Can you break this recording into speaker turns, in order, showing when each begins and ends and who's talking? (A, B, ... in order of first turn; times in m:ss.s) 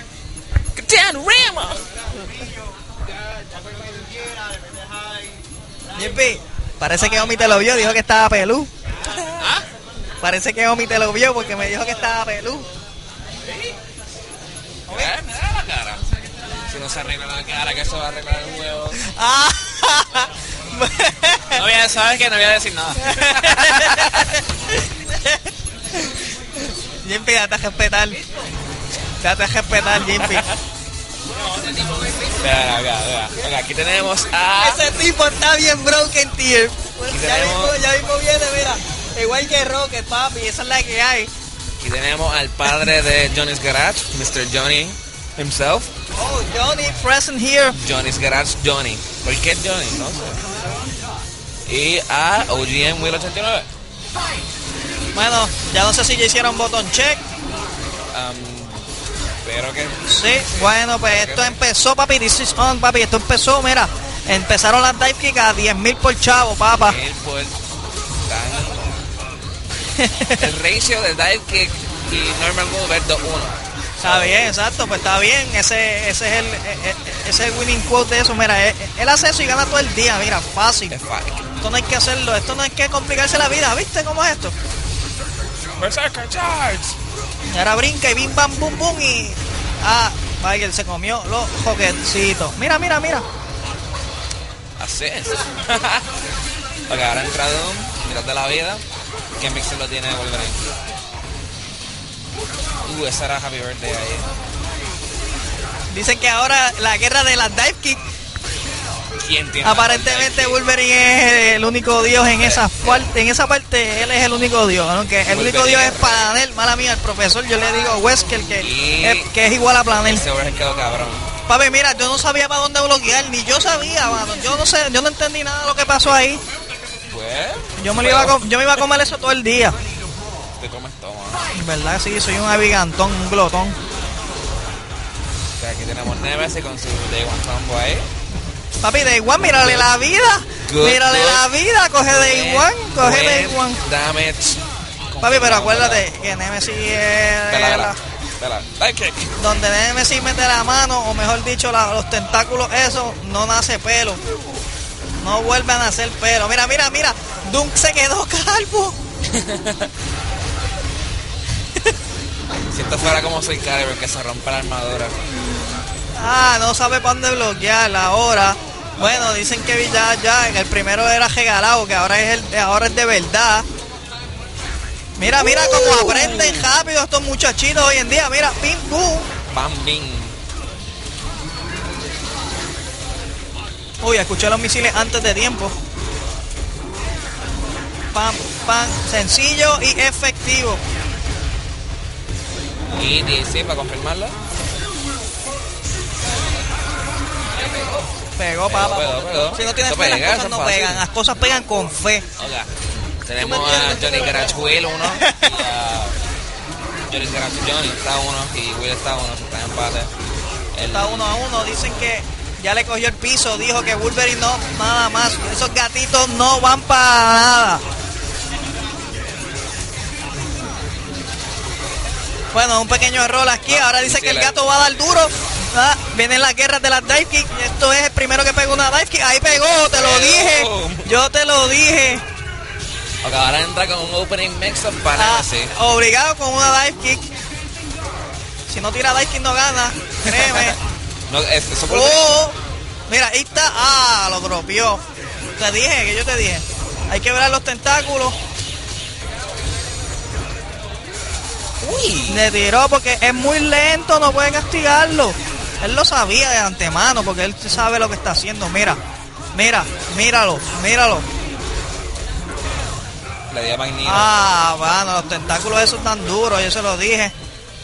0:00.8-0:01.8 A
0:06.0-0:08.7 B
0:09.3-0:09.6 A
0:10.2-0:12.7 B
0:14.9-0:16.0 A
0:16.6-0:19.0 A
0:19.0-0:21.6 B
0:21.6-0:24.4 A
0:23.0-0:25.4 B
0:27.0-0:28.2 B
0:29.2-0:30.4 B
0:30.1-0:30.6 A
0:32.2-0:34.9 A
0:34.6-0:41.3 B
0:37.1-0:37.8 A
0:41.8-0:45.9 A
0:46.2-0:47.8 B
0:47.7-0:50.4 A
0:51.7-0:53.7 A
0:55.1-0:57.2 B
0:58.1-0:58.9 A
0:59.4-1:01.6 A
1:00.1-1:07.0 B
1:06.8-1:07.6 A
1:08.3-1:09.0 A
1:10.0-1:10.5 B
1:10.4-1:14.5 A
1:14.0-1:21.0 B
1:20.9-1:21.5 A
1:21.6-1:24.5 B
1:25.8-1:27.0 A
1:27.5-1:33.2 B
1:34.8-1:36.1 A
1:36.9-1:38.8 A
1:39.4-1:40.6 A
1:42.8-1:44.3 A
1:45.9-1:48.0 B
1:49.2-1:50.6 A
1:49.6-2:00.2 B
1:52.4-1:52.6 A
1:55.3-1:56.3 A
1:58.6-1:59.3 A
1:59.9-2:01.3 A
2:01.5-2:06.4 B
2:07.1-2:08.4 A
2:07.8-2:09.8 B
2:10.6-2:11.5 A
2:11.5-2:13.8 B
2:15.6-2:18.1 A
2:18.8-2:23.8 B
2:19.6-2:19.9 A
2:20.7-2:21.5 A
2:22.0-2:26.1 A
2:25.2-2:28.0 B
2:27.5-2:29.4 A
2:29.4-2:34.2 B
2:35.2-2:39.0 B
2:39.3-2:39.9 A
2:42.7-2:45.2 A
2:46.2-2:53.7 B
2:49.0-2:49.3 A
2:55.2-2:59.3 B
2:55.4-2:56.7 A
2:59.5-3:00.4 A
3:04.0-3:05.7 B
3:08.1-3:10.8 B
3:12.9-3:14.4 A
3:18.4-3:22.3 B
3:18.6-3:21.0 A
3:22.4-3:22.7 A
3:23.2-3:26.2 A
3:23.4-3:25.6 B
3:27.1-3:30.1 A
3:30.7-3:31.4 A
3:30.9-3:37.8 B
3:42.5-3:52.2 B
3:43.7-3:44.5 A
3:49.9-3:51.1 A
3:53.2-3:55.7 A
3:55.2-3:57.2 B
3:58.7-4:00.8 B
4:00.3-4:00.8 A
4:01.3-4:02.3 A
4:01.8-4:02.6 B
4:03.1-4:05.0 B
4:05.6-4:08.4 B
4:11.8-4:12.5 A
4:12.3-4:19.0 B
4:19.5-4:21.3 B
4:23.5-4:24.3 A
4:24.0-4:27.3 B